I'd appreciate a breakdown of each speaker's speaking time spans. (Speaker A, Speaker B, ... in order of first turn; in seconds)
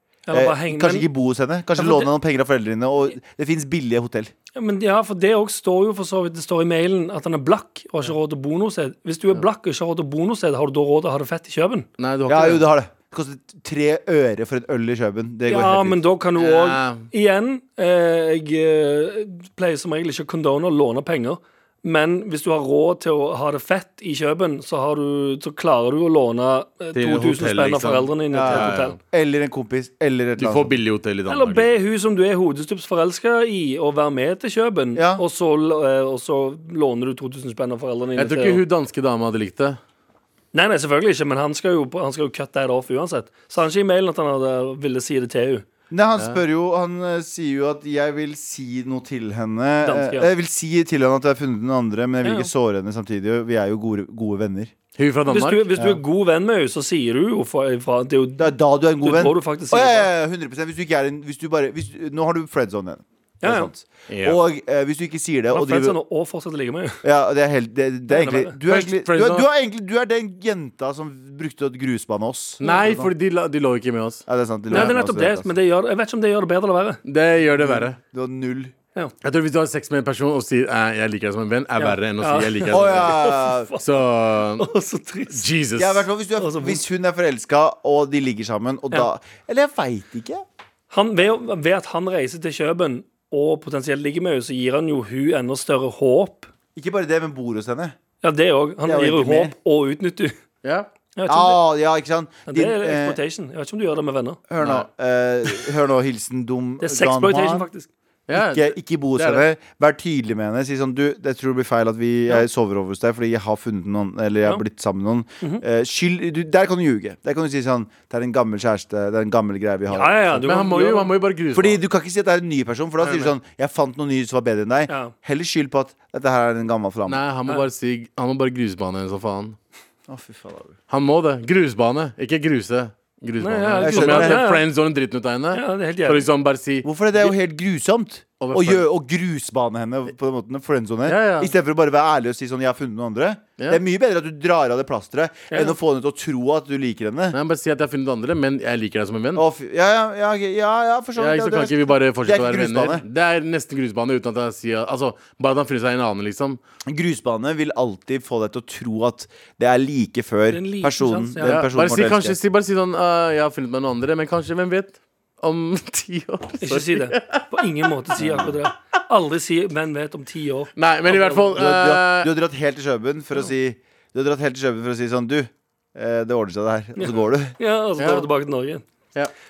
Speaker A: 0.3-1.1, 1.8-2.1, 4.5-11.9, 15.4-29.0, 31.3-38.6, 40.5-45.6, 49.8-50.3, 52.2-52.5, 55.3-60.1, 63.4-63.7, 65.5-67.0, 68.1-68.6, 74.7-77.0, 81.8-83.8, 84.6-85.4, 86.4-86.8, 90.9-96.5, 98.2-100.3, 101.2-101.6, 102.5-104.4, 106.8-107.9, 119.9-121.1, 123.0-123.3, 124.9-125.1, 133.4-134.6, 135.5-136.2, 145.5-145.7, 160.5-161.6, 166.6-170.7, 176.9-178.8
Speaker B: 0.3-4.3, 12.3-16.0, 28.3-30.7, 34.9-35.2, 45.9-54.7, 58.4-66.0, 67.0-73.1, 74.3-75.5, 77.6-78.7, 82.7-83.7, 85.7-90.4, 96.7-98.0, 98.8-99.5, 101.3-103.2, 104.5-107.7, 108.3-120.4, 121.5-127.2, 130.1-130.8, 133.8-134.5, 136.8-147.3, 149.3-153.0, 156.9-162.4, 168.2-168.5, 171.1-177.5
Speaker C: 12.0-12.7, 16.4-17.1, 26.9-29.0, 30.4-31.7, 38.1-39.8, 55.0-55.6, 64.1-64.4, 68.7-69.5, 72.6-75.0, 77.0-78.0, 79.2-83.2, 83.8-84.7, 85.3-86.0, 100.6-100.9, 104.6-104.9, 108.3-109.4, 120.4-121.8, 127.1-129.6, 130.9-137.3, 138.4-138.8, 141.1-141.5, 147.3-149.4, 151.2-156.6, 161.4-167.7, 170.8-172.3, 178.0-178.3